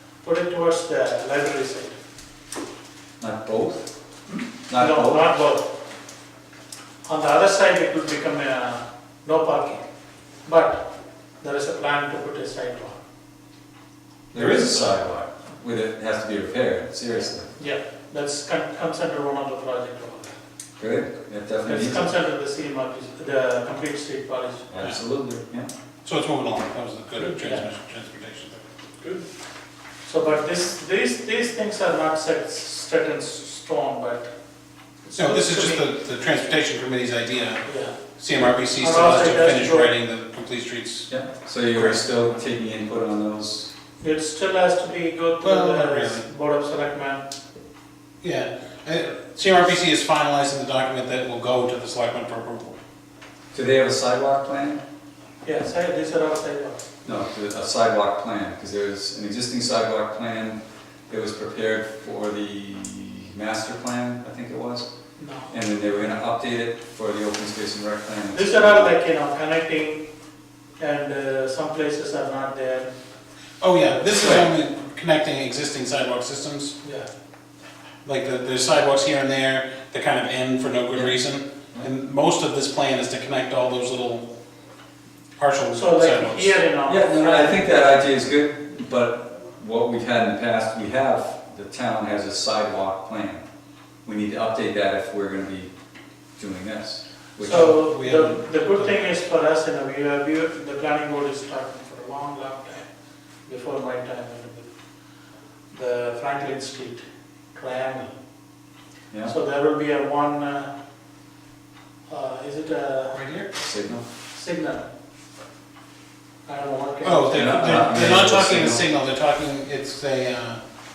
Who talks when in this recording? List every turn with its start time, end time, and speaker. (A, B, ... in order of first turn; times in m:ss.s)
0:00.2-0:02.0 A
0:03.2-0:05.3 B
0:04.7-0:05.7 A
0:07.0-0:09.8 A
0:10.4-0:10.8 A
0:11.4-0:13.0 A
0:14.3-0:17.5 B
0:14.3-0:15.0 C
0:17.6-0:20.3 A
0:20.8-0:22.1 B
0:21.6-0:24.7 A
0:24.7-0:25.7 B
0:26.0-0:28.6 C
0:27.2-0:27.6 A
0:30.0-0:34.3 A
0:35.0-0:35.8 A
0:35.2-0:37.6 C
0:37.6-0:38.0 A
0:38.2-0:41.1 C
0:38.8-0:39.9 A
0:41.1-0:43.7 B
0:41.7-0:42.0 C
0:44.0-0:47.2 A
0:45.4-0:46.3 C
0:48.2-0:52.8 C
0:53.5-0:54.8 B
0:55.4-0:57.0 A
0:57.0-1:04.9 B
1:05.2-1:05.9 A
1:05.5-1:08.9 B
1:08.3-1:10.0 A
1:10.8-1:12.9 A
1:13.6-1:16.7 C
1:13.9-1:14.4 A
1:16.8-1:17.1 A
1:18.0-1:24.2 C
1:25.4-1:26.6 C
1:25.7-1:27.7 A
1:26.9-1:33.4 B
1:34.0-1:35.7 B
1:36.4-1:37.7 B
1:37.4-1:42.9 A
1:37.7-1:39.0 C
1:43.5-1:44.7 A
1:45.7-1:47.0 A
1:47.5-1:48.1 A
1:49.2-1:50.7 A
1:52.1-1:53.2 A
1:53.1-1:53.5 C
1:53.6-1:54.0 B
1:54.3-1:54.9 A
1:56.4-1:57.8 A
1:57.0-2:00.6 C
1:57.3-1:58.8 B